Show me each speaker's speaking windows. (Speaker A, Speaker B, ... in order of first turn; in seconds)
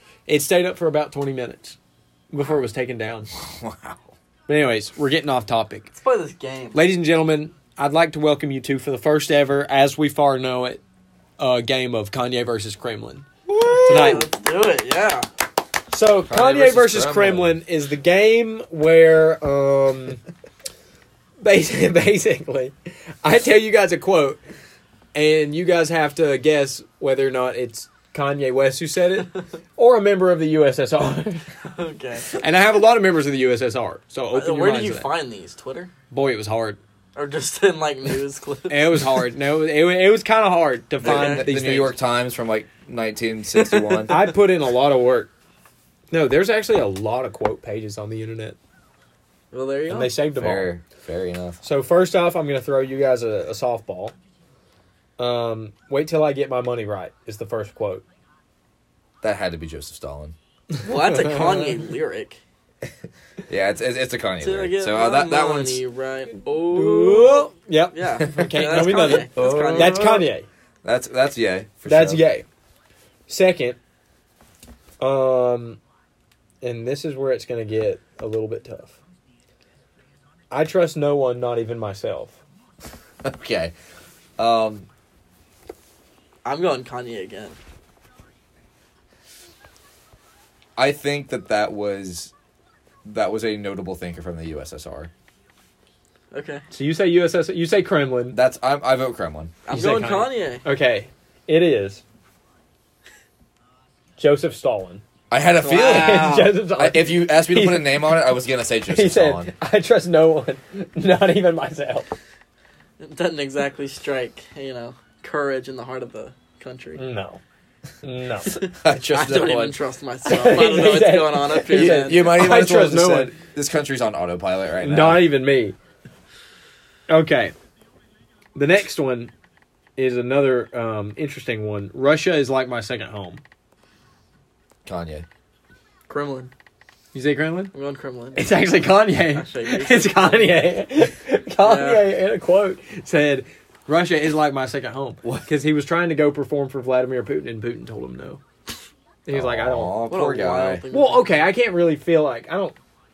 Speaker A: 0.3-1.8, 2.3-3.3, 4.5-5.9, 6.7-10.8, 11.4-14.3, 15.9-20.2, 21.4-24.4, 25.1-31.5, 32.3-35.1, 36.1-36.8, 38.7-41.9, 44.1-45.3, 46.1-48.6, 49.9-50.7, 51.6-54.1, 55.2-58.0, 61.2-61.7, 66.7-70.5, 71.8-72.4, 73.3-73.8, 75.0-75.8, 76.6-79.0, 80.5-82.4, 96.7-98.4, 99.7-102.0, 104.2-105.0, 105.8-108.2, 108.9-112.1, 117.0-117.4, 118.0-119.7, 120.2-123.3, 124.8-125.8, 127.1-127.5, 128.5-129.3, 130.0-133.4, 137.1-137.7, 138.3-148.4, 149.2-150.0, 150.9-152.7
Speaker B: 3.3-4.1, 13.5-14.2, 16.2-17.6, 41.0-44.2, 50.3-51.6, 59.2-60.3, 63.5-65.8, 69.3-70.2, 70.8-72.2, 83.2-83.7, 84.4-84.9, 90.8-92.3, 93.0-95.1, 98.3-99.5, 105.3-109.5, 118.8-119.7, 121.7-125.3, 134.8-135.2, 149.3-150.8
Speaker C: 5.9-6.8, 13.7-15.3, 31.6-32.3, 34.3-35.9, 37.1-39.0, 41.0-41.5, 43.5-44.2, 49.5-50.1, 60.8-62.4, 64.4-70.2, 86.4-87.6, 96.3-96.6, 99.7-100.6, 105.6-106.6, 113.0-117.0, 118.5-122.3, 136.1-136.5, 137.7-138.6, 139.2-140.6, 141.6-142.1, 150.1-151.5